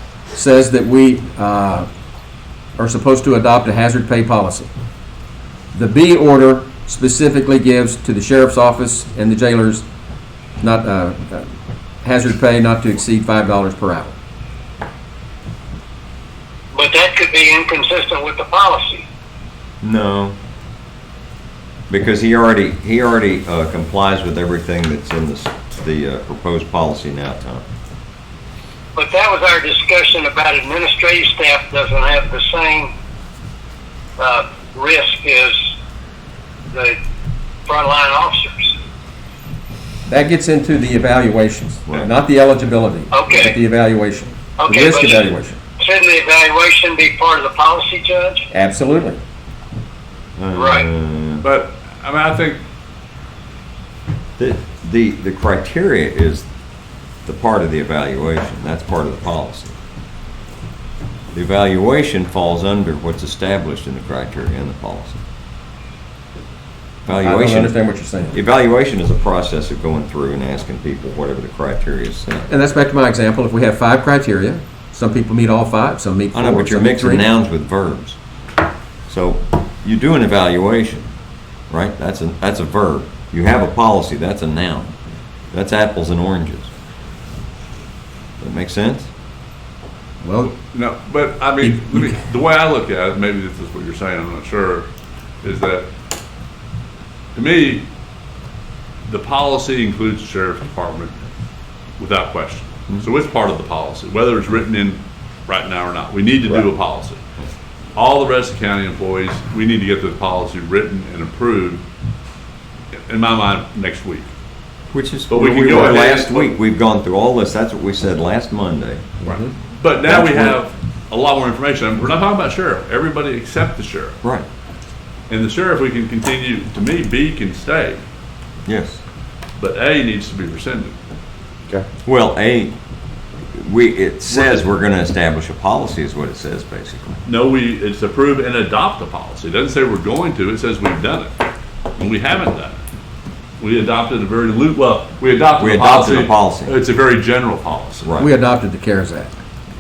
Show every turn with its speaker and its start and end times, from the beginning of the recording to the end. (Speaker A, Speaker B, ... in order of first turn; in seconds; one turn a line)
Speaker A: 0.3-1.9
Speaker A: 2.8-4.7
Speaker A: 5.7-9.8
Speaker A: 10.6-11.5
Speaker A: 12.0-14.1
Speaker B: 16.7-19.1
Speaker C: 19.8-20.4
Speaker C: 21.9-27.6
Speaker B: 28.9-32.9
Speaker B: 34.2-35.7
Speaker B: 36.7-37.0
Speaker B: 37.7-38.7
Speaker A: 40.1-45.6
Speaker B: 43.1-43.5
Speaker B: 44.6-45.2
Speaker B: 45.8-48.4
Speaker A: 48.5-49.2
Speaker C: 50.4-51.5
Speaker B: 50.5-50.9
Speaker D: 51.4-52.6
Speaker C: 54.4-56.5
Speaker C: 57.3-59.7
Speaker C: 61.3-65.2
Speaker C: 67.1-67.8
Speaker A: 67.1-68.4
Speaker C: 68.3-72.5
Speaker A: 72.5-77.2
Speaker C: 76.3-78.2
Speaker C: 79.1-81.1
Speaker C: 81.7-84.9
Speaker C: 85.5-86.7
Speaker C: 88.4-89.1
Speaker A: 90.2-90.5
Speaker D: 90.5-94.9
Speaker A: 91.6-92.1
Speaker D: 95.4-95.9
Speaker D: 97.3-97.8
Speaker D: 99.1-101.1
Speaker D: 102.0-107.2
Speaker D: 108.0-111.8
Speaker D: 113.1-114.3
Speaker C: 114.9-119.2
Speaker D: 115.3-116.5
Speaker D: 119.2-124.2
Speaker C: 120.0-120.6
Speaker D: 125.3-128.0
Speaker C: 128.7-129.0
Speaker D: 129.6-131.0
Speaker C: 132.0-132.8
Speaker C: 133.5-137.2
Speaker D: 134.3-134.6
Speaker D: 137.2-141.4
Speaker D: 142.0-142.8
Speaker D: 143.6-148.1
Speaker C: 145.6-146.7
Speaker C: 148.0-148.3
Speaker A: 148.2-149.4